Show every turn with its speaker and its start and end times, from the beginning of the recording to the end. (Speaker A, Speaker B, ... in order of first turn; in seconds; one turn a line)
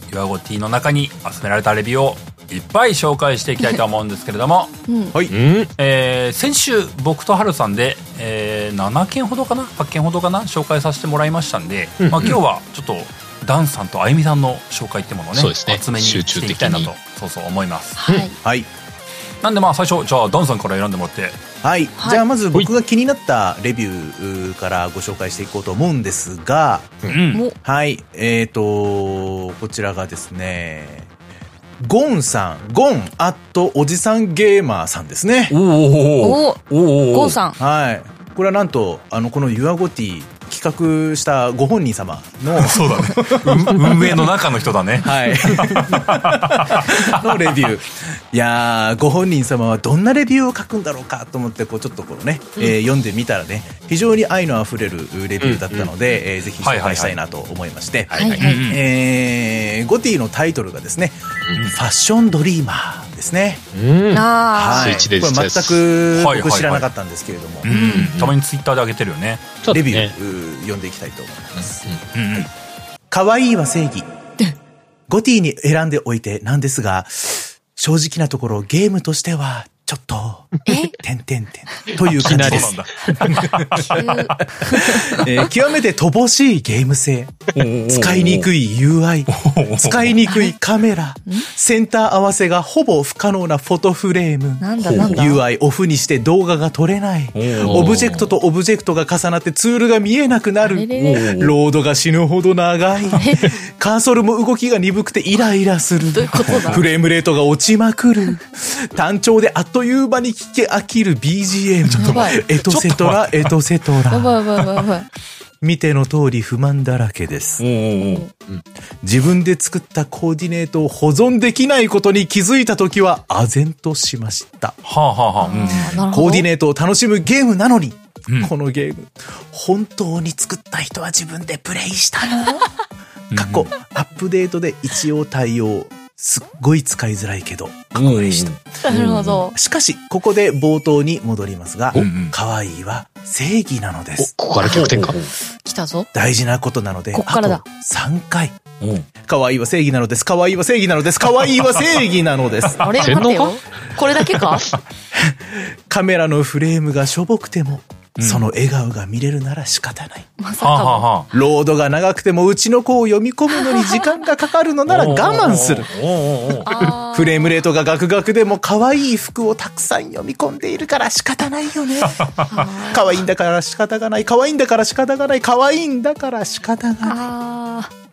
Speaker A: 0.1-4.8
Speaker B: 4.9-5.1
Speaker C: 5.3-5.7
Speaker A: 5.8-18.0
Speaker C: 12.0-12.4
Speaker C: 15.3-16.9
Speaker B: 18.0-18.4
Speaker D: 18.4-18.7
Speaker A: 19.4-21.4
Speaker D: 21.6-27.0
Speaker A: 27.1-27.4
Speaker D: 27.6-31.1
Speaker D: 31.8-35.5
Speaker A: 35.5-37.4
Speaker B: 36.2-37.6
Speaker D: 37.6-44.3
Speaker A: 42.6-47.7
Speaker D: 45.0-61.2
Speaker C: 55.4-55.9
Speaker A: 56.6-57.2
Speaker C: 58.1-58.5
Speaker B: 58.2-58.6
Speaker A: 58.4-58.8
Speaker D: 61.7-63.6
Speaker C: 63.7-65.8
Speaker B: 64.1-65.1
Speaker D: 64.5-67.7
Speaker A: 66.1-66.9
Speaker A: 67.6-69.5
Speaker B: 67.7-68.1
Speaker C: 67.7-68.3
Speaker C: 69.6-70.1
Speaker D: 69.7-72.5
Speaker C: 71.5-72.0
Speaker A: 72.1-72.5
Speaker D: 73.1-74.1
Speaker D: 75.1-114.4
Speaker B: 80.7-81.0
Speaker C: 82.0-83.1
Speaker A: 82.0-84.4
Speaker B: 83.9-85.3
Speaker A: 87.5-88.5
Speaker A: 89.3-90.2
Speaker B: 90.3-90.5
Speaker B: 94.6-95.4
Speaker A: 94.8-95.2
Speaker A: 97.3-98.3
Speaker C: 97.6-98.3
Speaker B: 100.6-101.4
Speaker A: 100.9-101.5
Speaker B: 103.1-103.6
Speaker B: 106.0-106.8
Speaker A: 106.4-106.8
Speaker A: 111.8-113.5
Speaker B: 112.0-112.4
Speaker B: 114.1-115.1
Speaker A: 114.6-114.8
Speaker D: 115.6-117.6
Speaker A: 117.6-118.2
Speaker B: 118.0-118.3
Speaker D: 119.0-124.8
Speaker A: 124.8-126.0
Speaker B: 125.4-126.5
Speaker D: 125.7-132.6
Speaker B: 132.4-132.7
Speaker A: 133.3-133.7
Speaker D: 133.3-139.0
Speaker A: 137.9-139.4
Speaker B: 138.8-139.5
Speaker D: 139.5-144.3
Speaker A: 141.9-142.3
Speaker C: 144.2-145.2
Speaker A: 144.6-145.3
Speaker B: 145.6-146.1
Speaker D: 146.1-148.6
Speaker B: 147.1-147.6
Speaker A: 148.8-149.1
Speaker D: 149.2-152.9
Speaker B: 152.8-154.7
Speaker C: 153.0-153.6
Speaker D: 155.1-160.3
Speaker A: 158.2-158.5
Speaker B: 160.4-161.1
Speaker A: 160.6-161.3
Speaker D: 161.3-165.9
Speaker B: 163.5-164.1
Speaker A: 164.9-166.8
Speaker B: 166.6-167.5
Speaker D: 166.7-177.2
Speaker A: 172.2-172.6
Speaker B: 172.5-173.2
Speaker B: 177.0-177.9